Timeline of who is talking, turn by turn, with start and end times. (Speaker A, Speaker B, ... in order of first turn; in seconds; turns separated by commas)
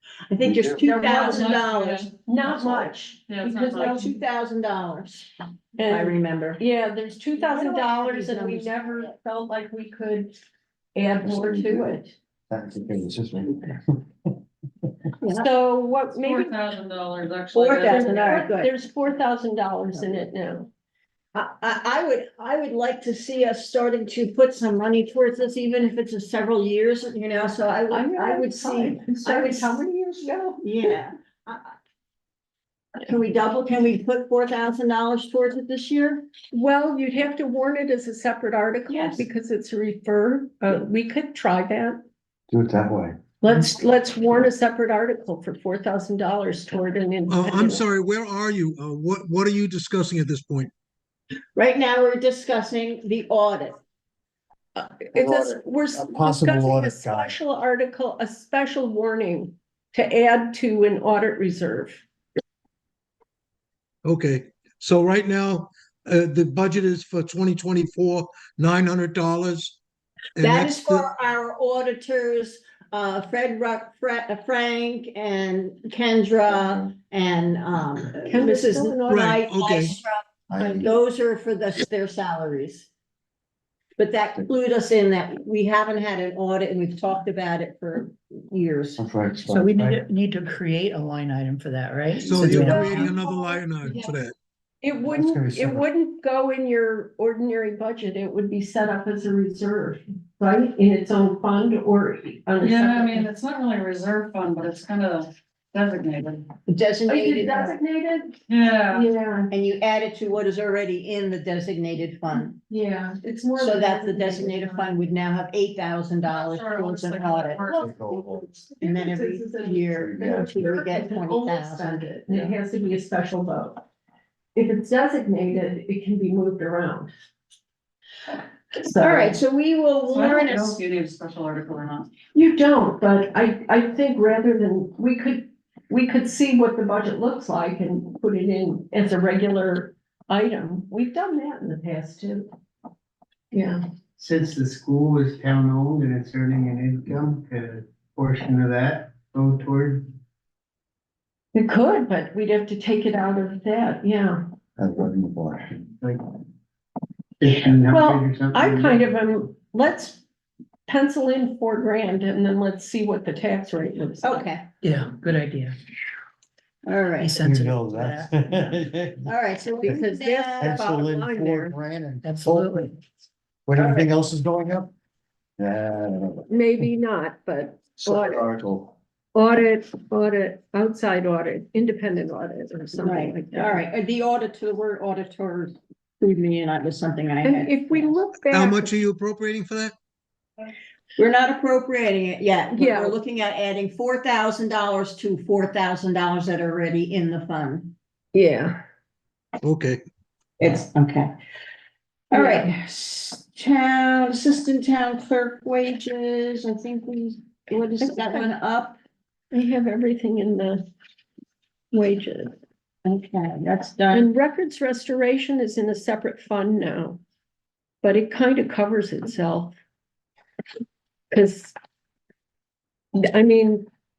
Speaker A: 0.3-2.1, Speaker B: 0.4-0.9, Speaker C: 0.9-2.1, Speaker D: 1.1-1.4, Speaker D: 2.2-4.1, Speaker C: 3.3-4.0, Speaker A: 3.7-5.3, Speaker D: 5.8-10.3, Speaker A: 5.8-6.6, Speaker A: 7.4-9.1, Speaker D: 10.9-12.1, Speaker B: 11.3-11.8, Speaker B: 12.5-14.0, Speaker D: 15.2-16.5, Speaker C: 16.1-18.1, Speaker A: 17.5-18.7, Speaker D: 17.8-20.7, Speaker A: 21.3-29.8, Speaker D: 27.9-30.6, Speaker A: 30.6-31.7, Speaker A: 33.0-36.2, Speaker D: 36.5-42.0, Speaker A: 38.9-39.2, Speaker B: 42.5-43.1, Speaker D: 43.4-47.8, Speaker E: 47.3-50.7, Speaker A: 51.5-53.8, Speaker D: 54.8-62.0, Speaker B: 55.1-57.3, Speaker E: 64.0-69.8, Speaker E: 70.3-71.0, Speaker A: 70.4-82.9, Speaker D: 78.2-79.4, Speaker E: 79.1-79.9, Speaker B: 80.5-80.9, Speaker A: 84.0-89.0, Speaker B: 89.0-90.0, Speaker F: 89.5-93.1, Speaker B: 92.2-92.7, Speaker E: 92.2-94.3, Speaker A: 92.4-94.1, Speaker D: 94.8-103.3, Speaker B: 95.0-95.8, Speaker C: 102.6-106.5, Speaker A: 106.7-107.7, Speaker D: 107.1-108.3, Speaker C: 108.5-109.1, Speaker D: 108.9-109.5, Speaker A: 109.5-112.5, Speaker D: 112.6-115.0, Speaker A: 113.5-117.8, Speaker C: 116.3-117.9, Speaker B: 117.7-118.5, Speaker D: 118.1-123.8, Speaker A: 118.8-122.1, Speaker B: 119.9-120.5, Speaker D: 124.5-127.1, Speaker D: 128.7-129.4, Speaker A: 129.0-130.8, Speaker C: 130.1-132.1, Speaker D: 132.3-142.5, Speaker D: 143.5-143.8, Speaker G: 144.2-150.1, Speaker D: 151.5-154.4, Speaker B: 154.8-155.8, Speaker G: 157.4-159.0, Speaker D: 157.8-160.2, Speaker D: 160.9-164.4, Speaker A: 164.2-164.7, Speaker F: 164.8-165.8, Speaker A: 166.8-167.4, Speaker F: 167.2-168.8, Speaker B: 167.4-169.3, Speaker A: 169.2-170.9, Speaker D: 169.8-171.8, Speaker B: 170.6-172.9, Speaker F: 172.2-172.9, Speaker B: 173.7-174.9, Speaker A: 173.8-174.1, Speaker B: 175.6-176.4, Speaker D: 176.5-178.4, Speaker B: 178.0-178.9, Speaker D: 179.3-183.8, Speaker A: 183.0-188.1, Speaker D: 187.4-188.9, Speaker E: 188.5-189.9, Speaker A: 191.2-197.9, Speaker D: 192.8-193.2, Speaker D: 198.3-198.8, Speaker E: 199.6-200.0, Speaker A: 200.6-201.3, Speaker A: 202.3-209.0, Speaker D: 202.3-202.7, Speaker D: 208.0-208.5, Speaker D: 209.5-210.8, Speaker D: 211.9-212.5, Speaker A: 213.0-214.3, Speaker D: 214.1-217.2, Speaker D: 218.0-219.8, Speaker D: 221.3-221.7, Speaker D: 223.1-223.9